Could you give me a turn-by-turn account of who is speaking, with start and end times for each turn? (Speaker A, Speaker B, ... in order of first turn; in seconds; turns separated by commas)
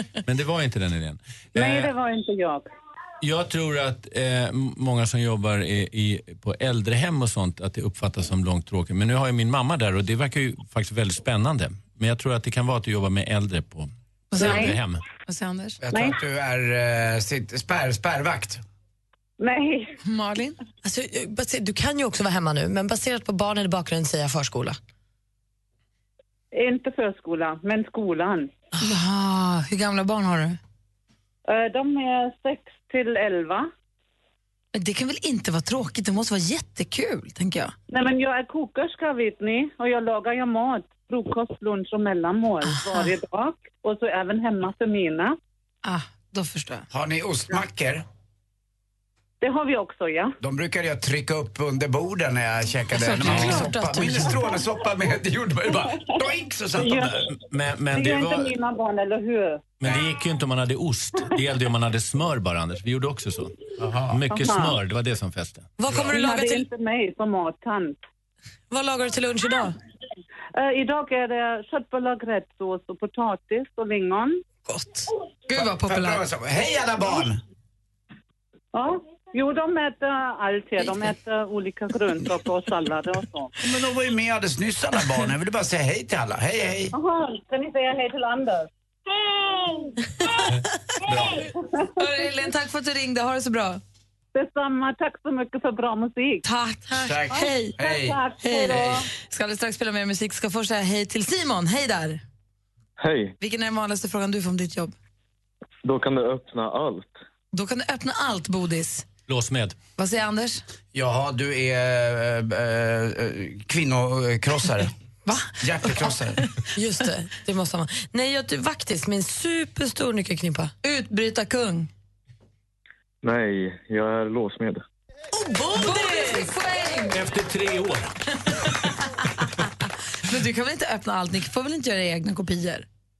Speaker A: 0.2-1.9, Speaker B: 1.5-2.7, Speaker A: 3.2-15.0, Speaker C: 14.3-15.8, Speaker B: 14.4-14.7, Speaker D: 15.8-18.6, Speaker B: 19.4-19.9, Speaker C: 20.0-20.6, Speaker E: 20.8-24.8, Speaker B: 26.5-28.5, Speaker C: 28.8-30.6, Speaker B: 31.5-33.7, Speaker C: 34.7-37.7, Speaker B: 37.9-45.3, Speaker C: 42.7-43.1, Speaker C: 45.8-46.9, Speaker D: 46.9-48.0, Speaker B: 49.4-50.3, Speaker D: 50.4-57.3, Speaker C: 52.9-54.5, Speaker A: 53.3-53.6, Speaker B: 56.8-57.2, Speaker A: 57.2-58.5, Speaker B: 57.9-59.7, Speaker A: 59.8-63.5, Speaker D: 63.8-64.2, Speaker A: 64.1-65.7, Speaker B: 64.3-64.7, Speaker E: 65.8-66.6, Speaker B: 66.1-68.0, Speaker E: 68.7-69.7, Speaker B: 70.6-74.4, Speaker E: 74.7-75.0, Speaker C: 75.5-76.2, Speaker D: 75.5-77.4, Speaker B: 78.7-83.5, Speaker D: 83.6-86.9, Speaker B: 86.9-88.7, Speaker D: 91.1-91.5, Speaker C: 92.0-93.8, Speaker B: 94.3-96.4, Speaker C: 96.5-97.8, Speaker D: 97.0-98.9, Speaker B: 97.3-99.0, Speaker C: 98.4-102.2, Speaker F: 103.0-103.3, Speaker C: 103.4-104.9, Speaker F: 105.8-107.1, Speaker C: 107.5-109.0, Speaker A: 109.3-109.8, Speaker C: 110.0-110.6, Speaker D: 110.9-114.9, Speaker C: 115.2-116.1, Speaker D: 115.6-116.4, Speaker E: 116.7-120.7, Speaker C: 120.8-121.9, Speaker F: 123.2-124.8, Speaker E: 125.3-126.5, Speaker C: 125.7-127.2, Speaker A: 127.1-128.1, Speaker C: 129.6-132.8